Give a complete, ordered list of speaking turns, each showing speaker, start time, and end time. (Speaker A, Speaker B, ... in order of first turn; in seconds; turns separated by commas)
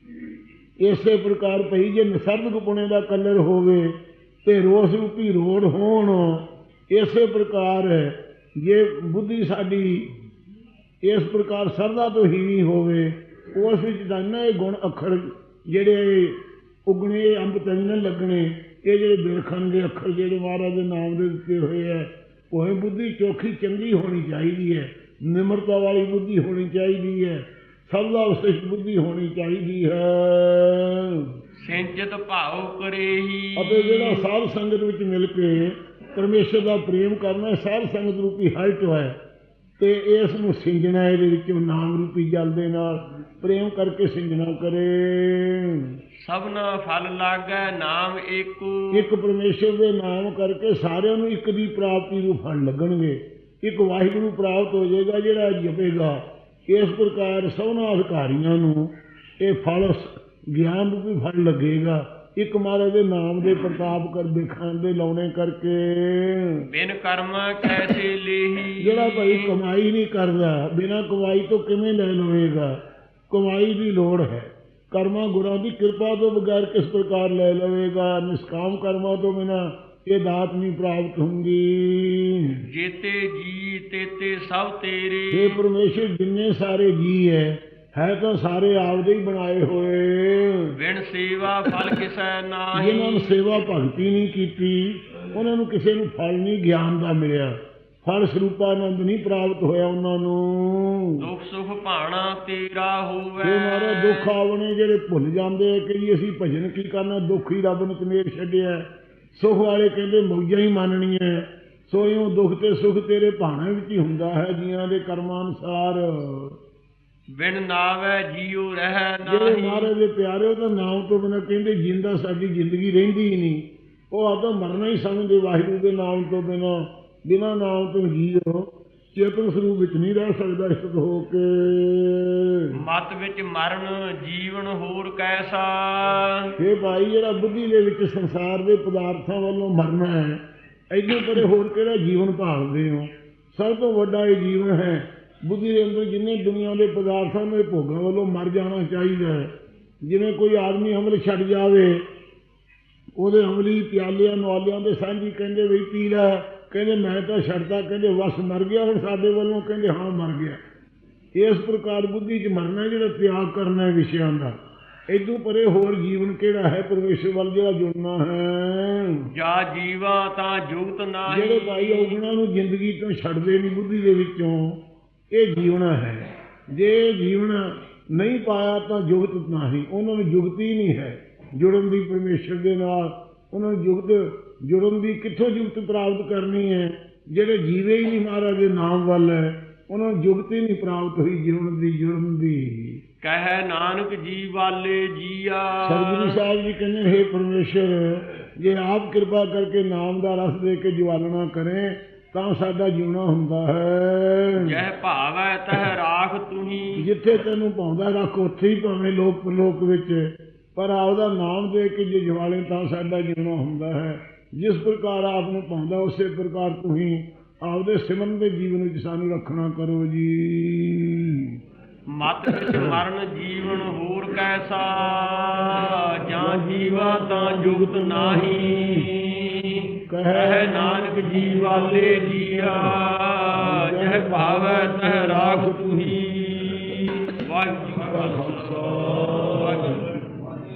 Speaker A: 0.8-10.1, Speaker A: 11.1-31.3, Speaker B: 31.6-34.3, Speaker A: 33.6-39.2, Speaker A: 39.8-46.0, Speaker B: 46.2-49.1, Speaker A: 48.9-66.7, Speaker B: 66.7-69.5, Speaker A: 68.8-72.8, Speaker A: 73.3-82.6, Speaker B: 82.7-85.6, Speaker A: 85.3-90.7, Speaker B: 90.8-93.4, Speaker A: 92.7-101.3, Speaker B: 101.2-104.3, Speaker A: 103.4-116.6, Speaker B: 117.3-119.9, Speaker A: 119.2-132.8, Speaker B: 132.8-136.5, Speaker A: 136.6-149.5, Speaker A: 150.0-152.0, Speaker A: 153.2-160.6, Speaker A: 161.3-164.6, Speaker A: 165.1-169.3, Speaker B: 169.3-172.2, Speaker A: 171.3-193.0, Speaker B: 193.2-196.4, Speaker A: 195.8-204.8, Speaker B: 204.6-207.1, Speaker A: 207.0-221.6, Speaker B: 222.1-240.2, Speaker A: 222.5-223.0, Speaker A: 226.4-229.1, Speaker A: 230.1-233.0, Speaker A: 233.6-236.2, Speaker A: 238.1-240.2